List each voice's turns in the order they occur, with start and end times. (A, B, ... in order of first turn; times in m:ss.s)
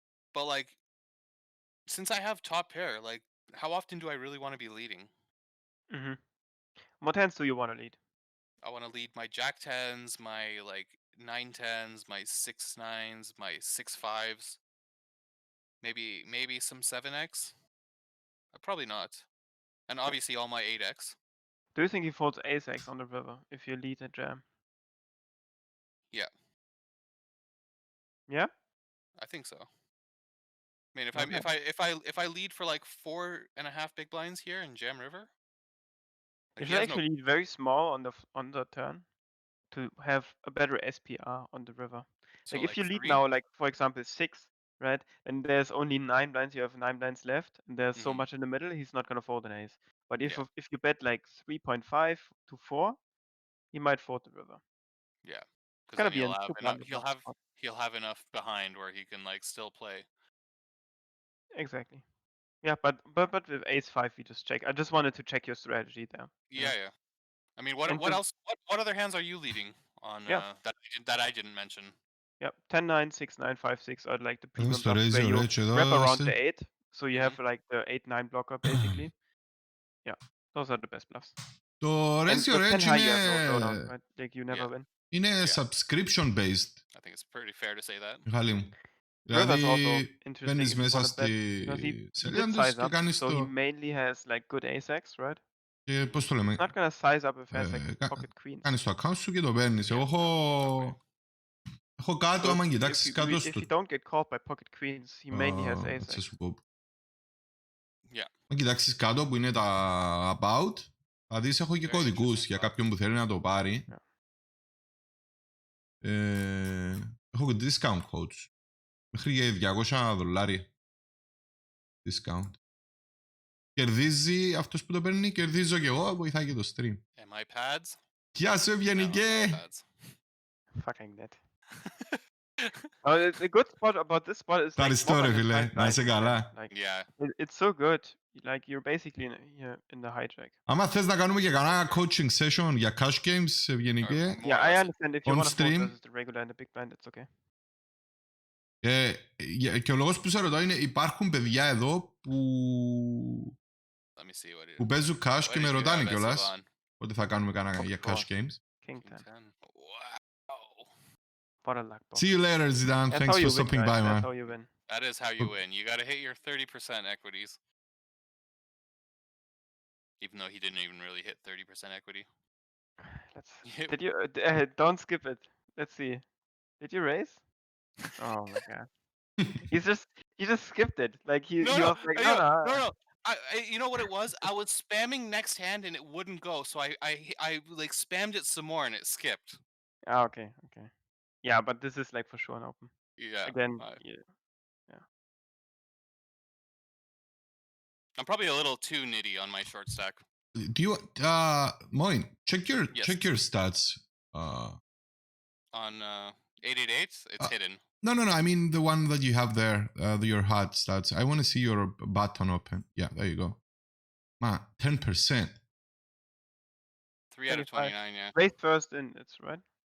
0:00.3-0:00.8 A
0:01.9-0:05.1 A
0:05.9-0:06.2 B
0:06.9-0:08.0 B
0:08.6-0:14.6 A
0:15.8-0:17.5 A
0:18.5-0:19.3 A
0:19.9-0:21.2 A
0:21.8-0:24.4 B
0:29.2-0:29.7 A
0:30.9-0:35.3 A
0:31.1-0:31.5 B
0:36.6-0:37.0 A
0:36.6-0:39.0 B
0:39.7-0:53.0 B
0:42.4-0:43.2 A
0:48.0-0:48.3 A
0:53.7-0:54.6 B
0:55.2-1:00.1 A
0:56.0-0:57.3 B
1:01.5-1:02.0 B
1:02.6-1:06.8 B
1:06.5-1:06.9 A
1:07.6-1:12.0 A
1:07.9-1:08.2 B
1:12.4-1:19.1 B
1:14.6-1:16.4 C
1:17.1-1:17.4 A
1:18.7-1:19.0 C
1:20.0-1:21.4 B
1:21.8-1:23.9 C
1:22.3-1:24.9 B
1:25.1-1:26.8 C
1:26.9-1:28.3 A
1:28.2-1:28.7 C
1:29.2-1:33.5 C
1:29.3-1:35.4 B
1:35.9-1:36.7 C
1:36.0-1:36.3 A
1:36.6-1:38.7 B
1:37.5-1:41.0 C
1:39.8-1:41.0 A
1:42.0-1:43.7 C
1:42.4-1:46.3 B
1:45.3-1:46.6 C
1:48.5-1:53.9 C
1:51.8-1:52.8 A
1:56.0-1:58.5 C
1:59.1-2:00.7 C
2:02.0-2:02.6 C
2:03.8-2:07.0 C
2:07.2-2:08.0 A
2:08.4-2:09.6 C
2:08.9-2:09.8 A
2:10.8-2:11.4 B
2:11.8-2:12.8 A
2:13.0-2:20.5 B
2:14.8-2:16.5 C
2:16.7-2:17.1 A
2:20.7-2:24.4 C
2:21.6-2:22.0 A
2:24.0-2:24.9 A
2:24.4-2:27.3 B
2:25.2-2:25.9 C
2:28.8-2:33.4 C
2:34.2-2:36.7 A
2:34.8-2:38.6 C
2:37.8-2:38.3 B
2:38.8-2:39.2 B
2:39.0-2:40.9 A
2:41.6-2:42.4 B
2:42.2-2:44.3 C
2:43.1-2:44.7 B
2:44.9-2:47.6 A
2:50.2-2:52.3 A
2:53.0-2:56.2 B
2:53.6-2:53.9 A
2:56.8-2:57.4 B
2:58.2-2:58.8 B
2:59.6-3:02.8 B
3:01.6-3:09.6 A
3:10.1-3:10.9 B
3:11.4-3:12.9 B
3:13.2-3:14.0 A
3:13.4-3:14.2 B
3:18.2-3:20.2 A
3:20.6-3:24.8 C
3:22.9-3:23.2 A
3:25.7-3:27.8 A
3:27.4-3:33.6 C
3:34.4-3:35.6 C
3:37.3-3:38.4 A
3:37.5-3:39.6 B